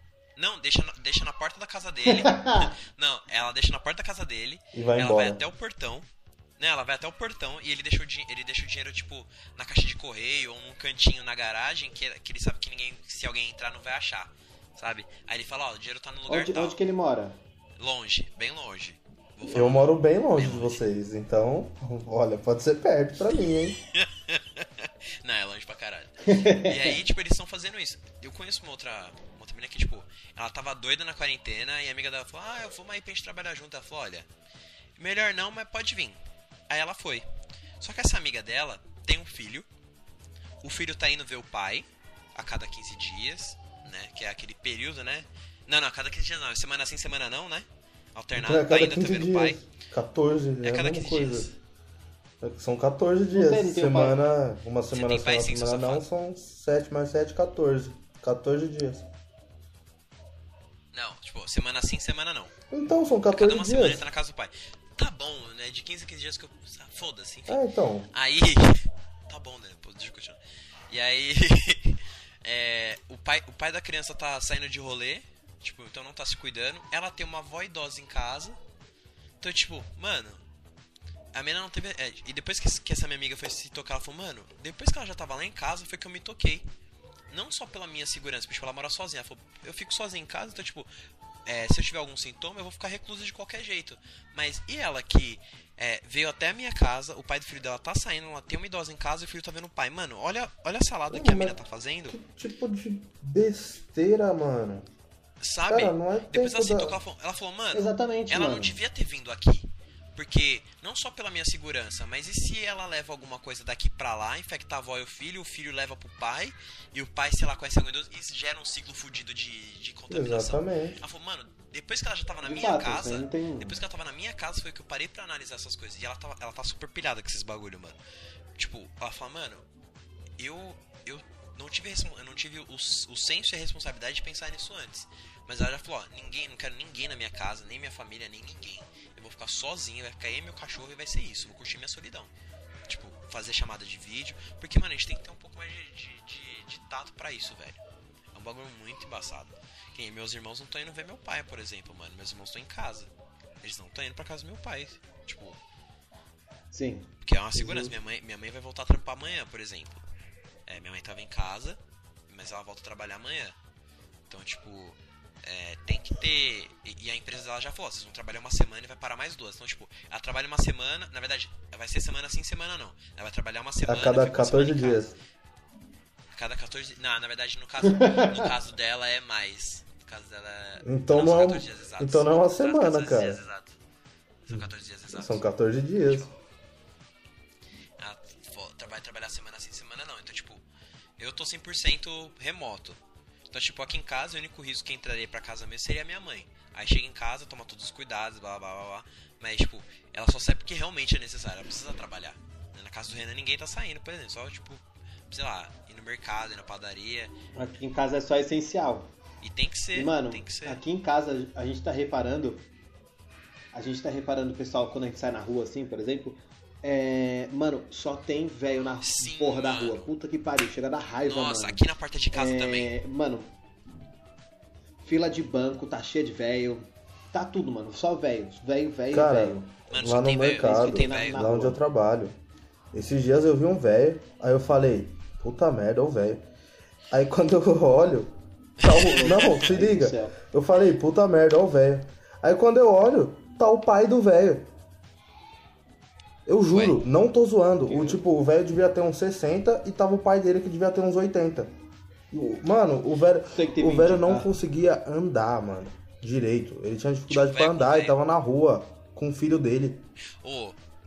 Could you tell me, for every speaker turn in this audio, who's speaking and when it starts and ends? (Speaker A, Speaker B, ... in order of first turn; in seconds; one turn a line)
Speaker A: 0.3-6.1
Speaker B: 2.1-2.7
Speaker C: 4.7-5.4
Speaker A: 6.6-16.8
Speaker B: 16.3-17.4
Speaker A: 17.8-20.8
Speaker C: 19.4-23.8
Speaker A: 23.9-34.3
Speaker B: 26.2-27.0
Speaker A: 35.0-37.2
Speaker A: 37.8-39.7
Speaker A: 40.6-49.6
Speaker C: 48.4-51.5
Speaker A: 50.6-51.5
Speaker C: 52.4-59.1
Speaker B: 53.3-54.2
Speaker A: 54.9-56.0
Speaker A: 60.9-62.5
Speaker C: 62.7-64.1
Speaker A: 63.3-67.6
Speaker C: 67.5-68.1
Speaker A: 68.1-70.4
Speaker A: 70.9-78.6
Speaker A: 79.4-80.4
Speaker A: 81.3-86.7
Speaker A: 87.3-90.9
Speaker A: 91.5-102.2
Speaker C: 101.1-101.6
Speaker C: 102.1-104.9
Speaker A: 105.4-128.0
Speaker C: 105.7-107.0
Speaker B: 107.7-108.8
Speaker C: 120.1-121.0
Speaker B: 122.4-123.8
Speaker A: 128.6-129.6
Speaker A: 130.4-142.3
Speaker A: 142.9-147.8
Speaker A: 148.3-153.1
Speaker A: 153.6-155.6
Speaker B: 156.7-157.9
Speaker A: 157.2-160.0
Speaker A: 160.7-163.5
Speaker A: 164.3-175.2
Speaker C: 173.8-175.1
Speaker A: 176.3-183.7
Speaker B: 177.8-178.5
Speaker C: 180.8-183.4
Speaker A: 184.5-185.4
Speaker C: 184.5-186.3
Speaker A: 186.0-186.3
Speaker A: 188.0-190.6
Speaker A: 191.2-193.0
Speaker A: 193.5-207.3
Speaker B: 207.6-209.1
Speaker A: 209.4-210.8
Speaker B: 209.9-212.7
Speaker B: 213.7-221.8
Speaker A: 219.0-220.1
Speaker A: 221.2-222.9
Speaker B: 222.3-223.5
Speaker B: 225.0-229.7
Speaker C: 229.1-232.3
Speaker A: 229.9-231.5
Speaker B: 230.6-231.8
Speaker C: 232.9-236.4
Speaker C: 237.1-244.7
Speaker A: 238.8-239.7
Speaker B: 239.1-240.4
Speaker C: 246.4-251.7
Speaker A: 246.7-247.0
Speaker B: 247.9-248.2
Speaker C: 252.3-260.0
Speaker B: 253.5-254.5
Speaker A: 257.3-258.2
Speaker A: 260.4-260.8